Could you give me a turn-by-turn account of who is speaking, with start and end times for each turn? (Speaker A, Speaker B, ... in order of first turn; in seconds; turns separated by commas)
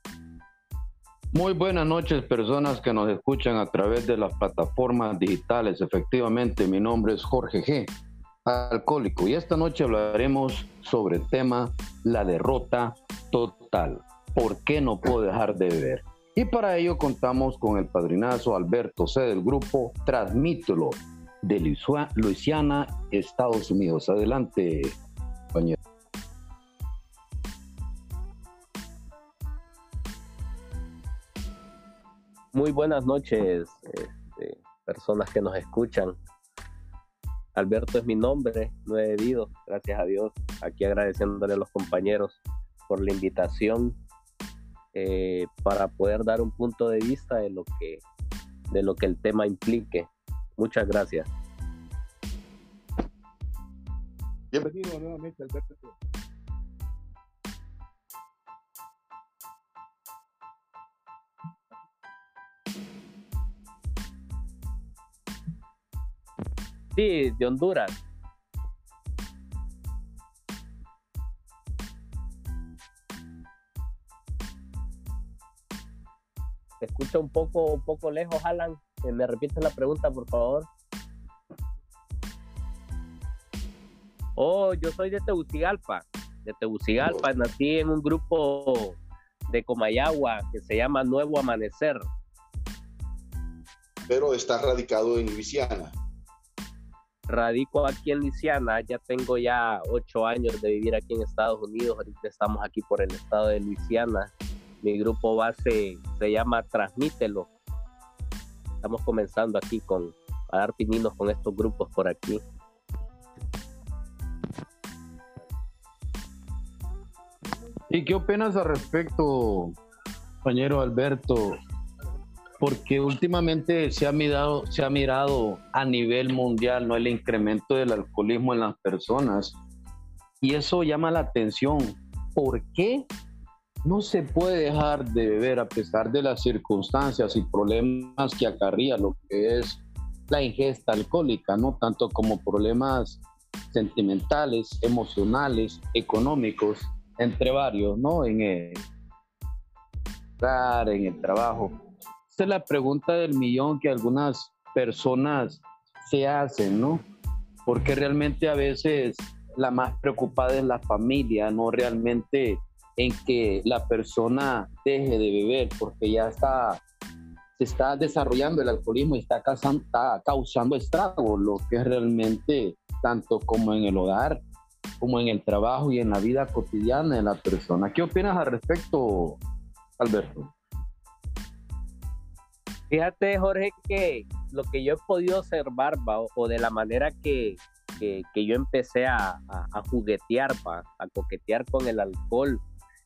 Speaker A: 1.3-7.9, Speaker A: 8.4-25.0, Speaker B: 32.5-36.2, Speaker B: 37.5-44.0, Speaker B: 44.9-48.0, Speaker B: 48.7-51.3, Speaker C: 54.5-55.9, Speaker B: 66.9-68.0, Speaker B: 76.8-80.7, Speaker B: 84.4-89.0, Speaker C: 87.0-87.3, Speaker B: 89.5-92.1, Speaker C: 94.1-96.0, Speaker B: 97.3-107.5, Speaker B: 108.8-112.4, Speaker A: 117.9-119.8, Speaker A: 120.4-121.5, Speaker A: 122.6-129.6, Speaker A: 130.4-133.1, Speaker A: 133.8-143.2, Speaker A: 143.7-148.8, Speaker A: 150.4-151.7, Speaker A: 152.3-157.1, Speaker A: 157.7-166.8, Speaker A: 167.6-174.4, Speaker A: 175.0-179.4, Speaker A: 180.0-180.5, Speaker B: 182.9-192.6